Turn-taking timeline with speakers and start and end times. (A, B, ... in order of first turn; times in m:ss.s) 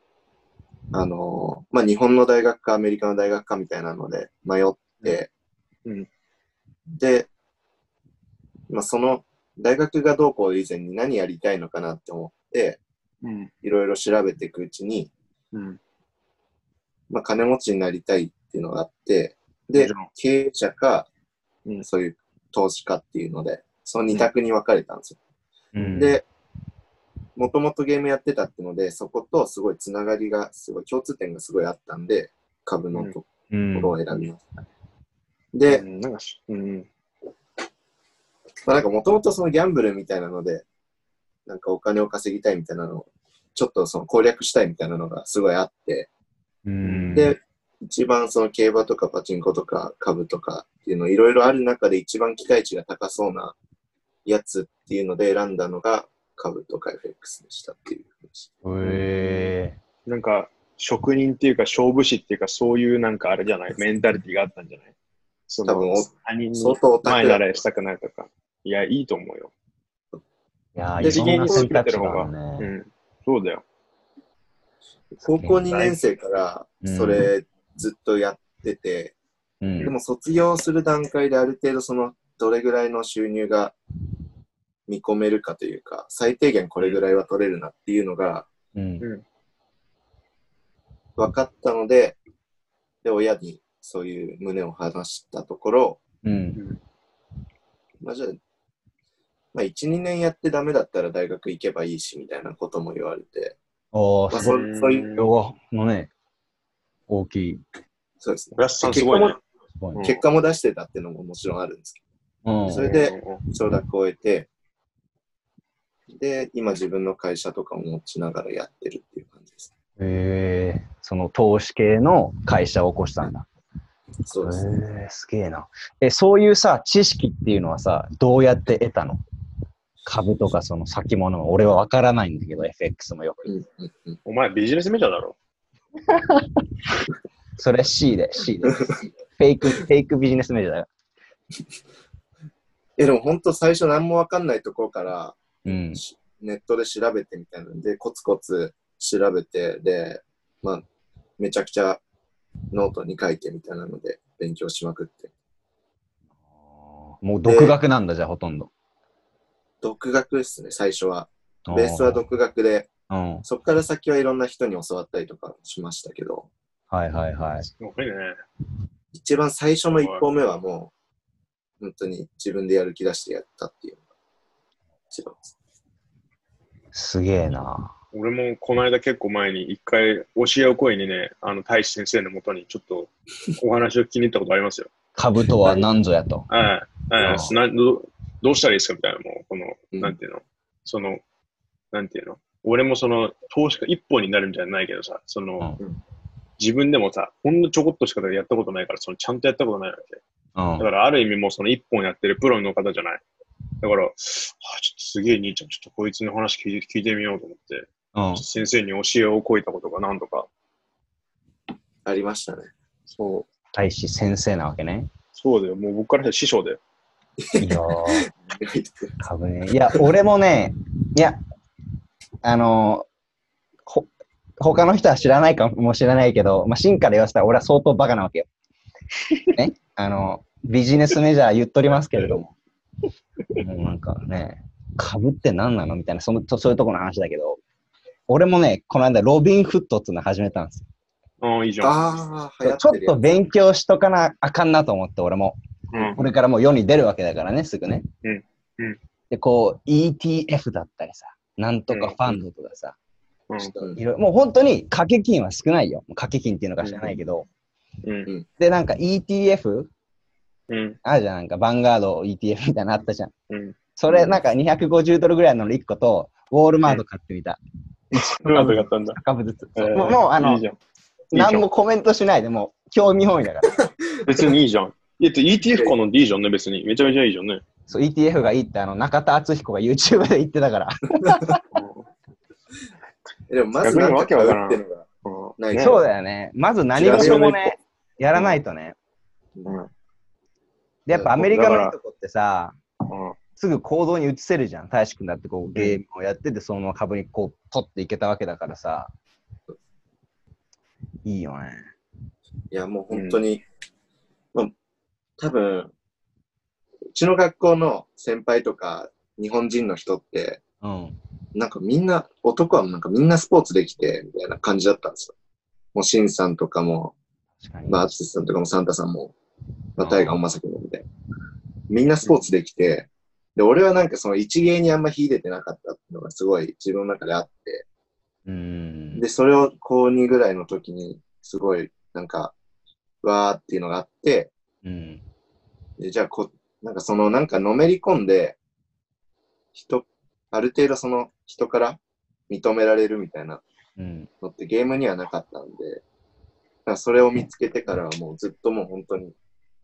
0:00.9-0:05.3 A
0:07.0-0:07.3 A
0:08.7-0:12.8 A
0:13.2-0:13.5 B
0:13.6-0:15.1 A
0:15.5-0:15.8 B
0:17.1-0:21.1 A
0:19.8-0:20.1 B
0:21.8-0:25.2 A
0:25.7-0:26.2 C
0:25.9-0:26.2 A
0:27.4-0:34.4 A
0:33.5-0:33.9 C
0:35.5-0:35.8 A
0:35.7-0:36.9 B
0:38.6-0:40.6 A
0:41.5-0:46.1 A
0:46.7-0:47.3 C
0:46.8-0:47.2 B
0:47.1-0:53.6 A
0:54.2-0:58.5 A
0:58.6-0:59.8 C
0:58.8-0:59.5 B
1:00.0-1:04.9 B
1:05.5-1:09.5 B
1:05.6-1:07.5 A
1:10.7-1:12.7 C
1:11.0-1:11.6 A
1:11.0-1:13.6 B
1:15.2-1:19.1 A
1:15.2-1:15.6 C
1:15.6-1:16.0 B
1:16.8-1:17.3 C
1:19.6-1:19.9 C
1:19.8-1:23.7 A
1:24.9-1:28.5 A
1:28.7-1:29.0 C
1:31.2-1:32.2 A
1:33.0-1:36.0 A
1:36.2-1:36.6 C
1:38.0-1:38.4 A
1:39.5-1:43.6 A
1:43.9-1:44.5 C
1:44.3-1:45.1 A
1:44.4-1:45.3 B
1:45.2-1:46.1 C
1:47.1-1:47.6 C
1:48.2-1:49.4 A
1:48.6-1:49.4 B
1:49.8-1:50.1 C
1:49.9-1:50.2 B
1:50.0-1:52.0 A
1:52.4-1:52.8 C
1:52.7-1:54.5 A
1:52.8-1:53.4 B
1:56.1-1:59.7 A
2:00.0-2:03.4 C
2:04.3-2:04.6 A
2:04.4-2:09.2 C
2:10.0-2:13.4 C
2:13.5-2:14.2 A
2:14.2-2:15.4 B
2:16.1-2:16.5 C
2:17.6-2:20.9 C
2:23.0-2:30.8 A
2:25.7-2:26.0 C
2:31.4-2:32.0 A
2:32.7-2:35.3 A
2:36.8-2:38.7 C
2:37.5-2:37.8 A
2:39.8-2:42.9 A
2:41.7-2:42.2 C
2:43.1-2:43.4 C
2:43.4-2:46.5 A
2:46.9-2:47.7 C
2:47.6-2:48.3 B
2:49.1-2:50.9 A
2:49.9-2:50.2 B
2:51.8-2:54.0 A
2:55.1-2:55.5 A
2:56.9-2:57.9 C
2:58.1-3:04.9 B
3:05.2-3:06.5 C
3:06.5-3:11.2 B
3:07.2-3:07.6 C
3:11.9-3:15.7 B
3:16.6-3:20.2 B
3:20.6-3:20.9 C
3:20.8-3:23.2 B
3:23.8-3:30.5 B
3:28.2-3:28.4 C
3:32.0-3:32.7 A
3:33.1-3:33.5 B
3:33.7-3:35.1 C
3:35.3-3:36.8 B
3:37.5-3:39.2 A
3:37.6-3:38.3 C
3:39.2-3:41.4 C
3:42.4-3:43.1 C
3:44.6-3:48.5 C
3:49.5-3:52.5 C
3:53.6-3:57.6 C
3:58.3-4:00.8 C
4:01.4-4:02.0 B
4:01.8-4:03.4 A
4:02.6-4:08.0 C
4:05.9-4:06.2 B
4:08.2-4:09.0 B
4:09.3-4:13.0 C
4:11.9-4:12.4 B
4:13.5-4:13.8 B
4:13.6-4:14.0 A
4:13.9-4:17.5 C
4:16.8-4:17.2 B
4:18.0-4:18.3 B
4:18.6-4:19.9 C
4:20.7-4:21.0 B
4:21.0-4:23.3 C
4:23.5-4:24.4 B
4:24.0-4:27.6 C
4:28.1-4:30.6 C
4:28.4-4:29.2 B
4:29.8-4:30.8 B
4:31.3-4:31.7 B
4:31.3-4:33.8 C
4:34.2-4:37.6 B
4:37.9-4:41.6 C
4:41.7-4:42.1 B
4:43.5-4:45.1 A
4:43.8-4:46.0 B
4:45.6-4:46.0 A
4:45.8-4:48.9 C
4:47.0-4:47.6 A
4:47.0-4:47.8 B
4:48.4-4:48.6 B
4:49.5-4:49.8 A
4:51.1-4:52.8 C
4:51.2-4:52.0 B
4:53.1-4:53.4 B
4:53.6-4:59.1 C
4:55.7-4:56.0 B
5:01.2-5:01.9 C
5:02.7-5:03.6 A
5:03.1-5:03.4 B
5:05.4-5:05.9 A
5:07.1-5:10.6 A
5:10.8-5:11.2 C
5:11.5-5:15.3 A
5:15.9-5:17.1 A
5:17.6-5:18.1 C
5:17.9-5:19.4 A
5:20.0-5:21.0 A
5:20.0-5:20.4 C
5:21.9-5:27.8 A
5:28.5-5:29.2 C
5:29.2-5:32.5 A
5:33.2-5:34.5 A
5:34.8-5:35.2 C
5:36.0-5:38.6 A
5:39.8-5:43.6 A
5:44.0-5:44.3 C
5:44.4-5:46.0 A
5:46.9-5:49.4 A